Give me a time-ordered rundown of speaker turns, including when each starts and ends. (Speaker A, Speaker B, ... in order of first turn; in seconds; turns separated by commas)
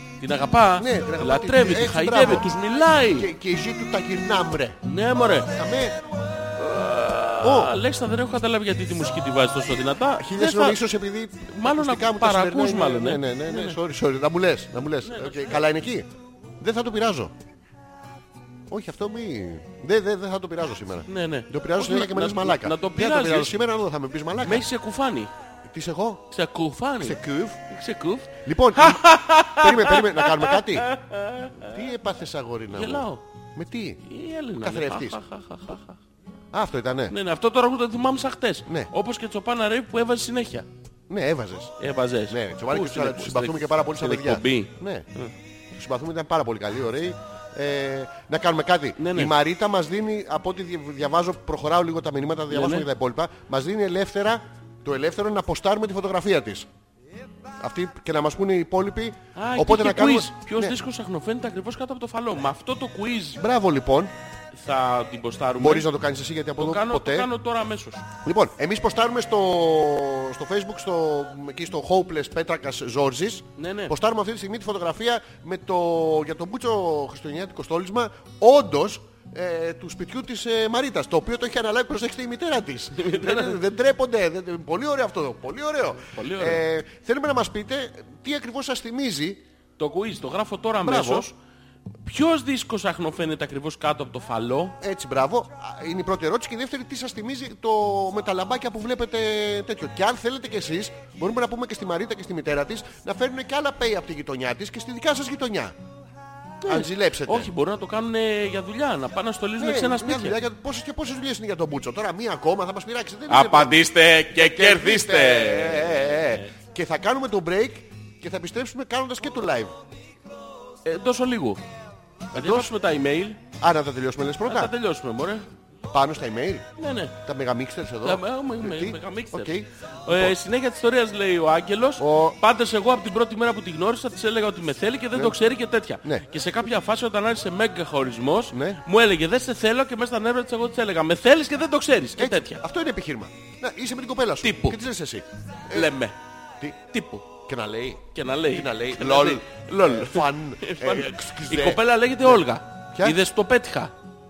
Speaker A: 0.2-3.3, Speaker B: 0.8-2.5, Speaker B: 3.1-4.8, Speaker A: 4.8-5.5, Speaker B: 5.5-6.0, Speaker A: 6.6-10.8, Speaker B: 7.4-7.7, Speaker B: 10.2-16.1, Speaker A: 11.5-13.8, Speaker A: 15.0-15.6, Speaker B: 16.6-17.3, Speaker B: 18.7-24.7, Speaker A: 21.1-23.6, Speaker A: 24.4-25.3, Speaker B: 25.6-26.2, Speaker A: 26.3-31.7, Speaker B: 27.0-27.6, Speaker B: 28.4-30.9, Speaker B: 31.7-34.0, Speaker A: 32.7-33.2, Speaker A: 34.1-36.0, Speaker B: 34.6-35.2, Speaker B: 36.5-37.1, Speaker A: 37.1-40.7, Speaker B: 41.1-41.7, Speaker A: 41.8-45.3, Speaker B: 42.3-45.1, Speaker B: 45.7-56.7, Speaker A: 49.0-49.4, Speaker A: 52.5-52.9, Speaker B: 57.6-60.8, Speaker A: 59.4-63.4, Speaker B: 63.4-64.1, Speaker A: 64.5-65.9, Speaker B: 65.6-67.3, Speaker A: 66.6-68.0, Speaker B: 68.2-89.4, Speaker A: 73.6-73.9, Speaker A: 83.0-83.6, Speaker A: 86.1-86.6, Speaker A: 89.8-91.3, Speaker B: 90.8-91.3, Speaker A: 92.1-94.8, Speaker B: 94.8-105.8, Speaker A: 106.6-110.4, Speaker B: 106.7-107.5, Speaker B: 109.6-113.8, Speaker A: 113.3-116.5, Speaker B: 114.3-119.8, Speaker A: 120.8-121.6, Speaker B: 122.3-122.7, Speaker A: 122.3-123.4, Speaker B: 123.6-124.7, Speaker A: 124.5-125.5, Speaker B: 125.9-126.7, Speaker A: 126.8-127.2, Speaker B: 127.2-130.3, Speaker A: 128.0-142.6, Speaker B: 132.0-132.4, Speaker B: 138.5-138.8, Speaker B: 142.2-145.9, Speaker A: 144.4-144.8, Speaker A: 145.7-146.2, Speaker A: 146.9-147.3, Speaker B: 147.3-152.4, Speaker A: 148.1-153.9